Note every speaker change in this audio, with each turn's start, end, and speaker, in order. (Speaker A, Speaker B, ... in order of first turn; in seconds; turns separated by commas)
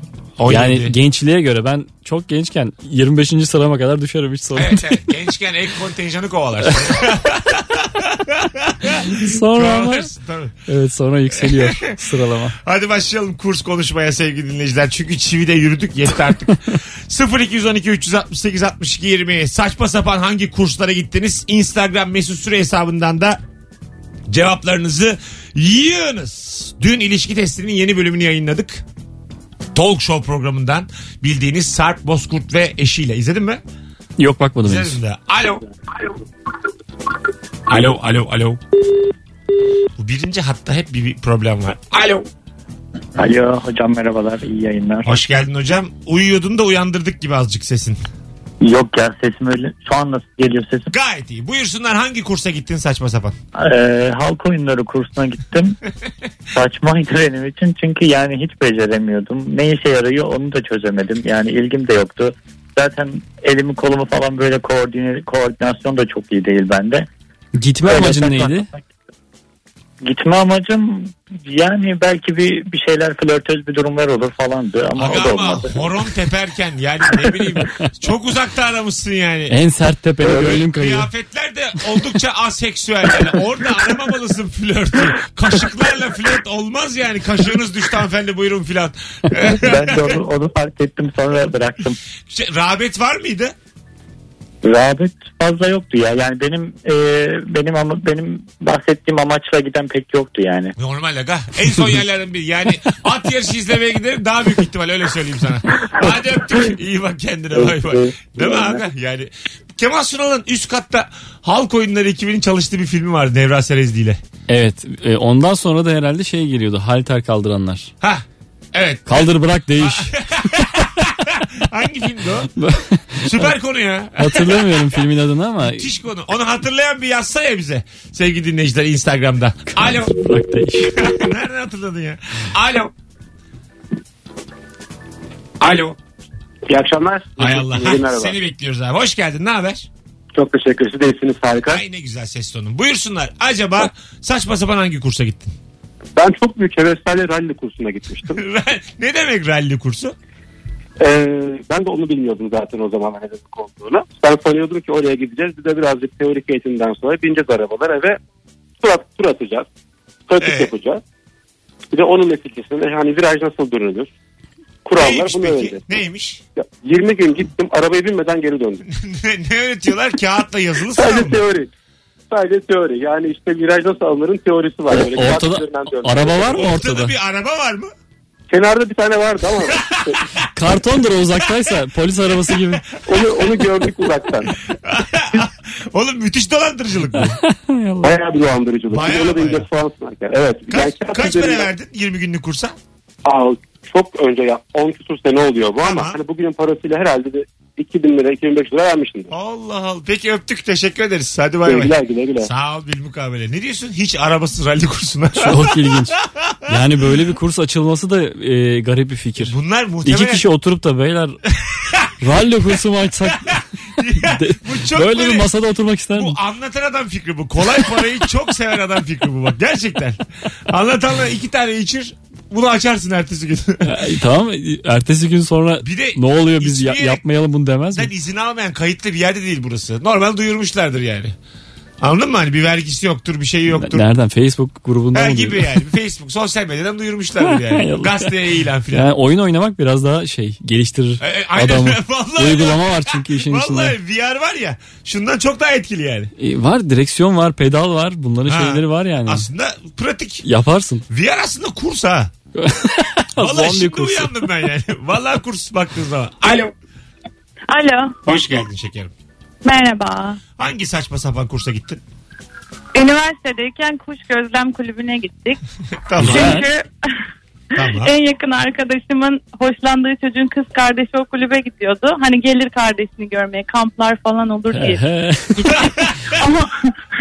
Speaker A: 0.4-0.9, Speaker B: 0.5-5.0, Speaker A: 4.5-10.5, Speaker B: 9.1-10.1, Speaker B: 10.7-12.5, Speaker A: 11.4-12.0, Speaker A: 12.6-23.4, Speaker A: 24.3-28.8, Speaker A: 29.7-33.6, Speaker B: 34.2-35.0, Speaker A: 34.6-35.6, Speaker A: 37.7-38.6, Speaker A: 40.0-42.2, Speaker C: 43.2-45.2, Speaker A: 45.0-48.0, Speaker C: 48.6-50.9, Speaker A: 50.9-53.3, Speaker C: 53.5-55.8, Speaker C: 56.5-67.1, Speaker B: 67.5-68.7, Speaker C: 67.8-68.9, Speaker C: 70.0-75.8, Speaker A: 75.0-79.5, Speaker B: 79.5-81.1, Speaker A: 80.2-90.1, Speaker C: 89.5-92.0, Speaker A: 92.3-93.5, Speaker C: 94.6-100.7, Speaker A: 100.8-114.2, Speaker C: 107.5-108.8, Speaker B: 114.5-117.9, Speaker A: 118.0-122.5, Speaker B: 119.1-120.1, Speaker B: 122.5-123.5, Speaker A: 123.2-124.9, Speaker B: 124.2-125.8, Speaker A: 125.6-130.1, Speaker B: 129.7-131.0, Speaker A: 130.9-132.9, Speaker A: 135.6-135.9, Speaker D: 136.7-138.3, Speaker A: 137.4-139.9, Speaker D: 140.3-141.8, Speaker A: 141.7-145.5, Speaker D: 146.2-148.4, Speaker A: 148.3-150.1, Speaker D: 151.0-158.2, Speaker D: 158.8-159.7, Speaker D: 160.3-161.0, Speaker A: 160.4-160.7, Speaker D: 161.9-164.1, Speaker D: 164.8-165.8, Speaker A: 165.0-166.4, Speaker D: 166.6-168.8, Speaker A: 168.9-171.4, Speaker D: 170.9-171.7, Speaker D: 172.3-176.6, Speaker B: 174.9-177.1, Speaker A: 176.5-177.9, Speaker D: 178.5-180.2, Speaker B: 180.5-182.8, Speaker D: 183.1-184.5, Speaker A: 184.8-187.4, Speaker B: 187.2-188.2, Speaker D: 188.0-191.7, Speaker A: 188.9-189.6, Speaker A: 190.7-192.7, Speaker D: 193.2-199.3, Speaker A: 195.8-196.2, Speaker A: 199.3-206.8, Speaker D: 201.7-202.5, Speaker B: 205.4-206.2, Speaker B: 206.7-209.5, Speaker A: 209.4-210.4, Speaker B: 210.0-211.4, Speaker A: 211.7-212.1, Speaker B: 212.2-213.6, Speaker A: 213.5-215.5, Speaker B: 214.2-216.3, Speaker A: 216.2-223.9, Speaker B: 223.8-228.1, Speaker A: 225.8-227.2, Speaker A: 227.9-231.3, Speaker A: 232.0-234.0, Speaker B: 233.8-235.8, Speaker A: 235.1-239.1, Speaker B: 237.4-238.3, Speaker B: 238.9-243.9, Speaker A: 241.2-246.3, Speaker B: 246.4-249.4, Speaker A: 248.5-250.4, Speaker B: 250.4-251.0, Speaker A: 251.1-252.3, Speaker B: 252.6-254.3, Speaker A: 253.4-256.7, Speaker E: 257.7-258.1, Speaker A: 258.2-259.1, Speaker E: 259.6-260.4, Speaker A: 260.6-262.0, Speaker E: 262.9-265.6, Speaker A: 266.1-266.7, Speaker E: 266.2-266.9, Speaker B: 266.2-266.6, Speaker A: 267.7-268.1, Speaker E: 267.8-275.0, Speaker B: 274.7-275.8, Speaker E: 275.6-276.7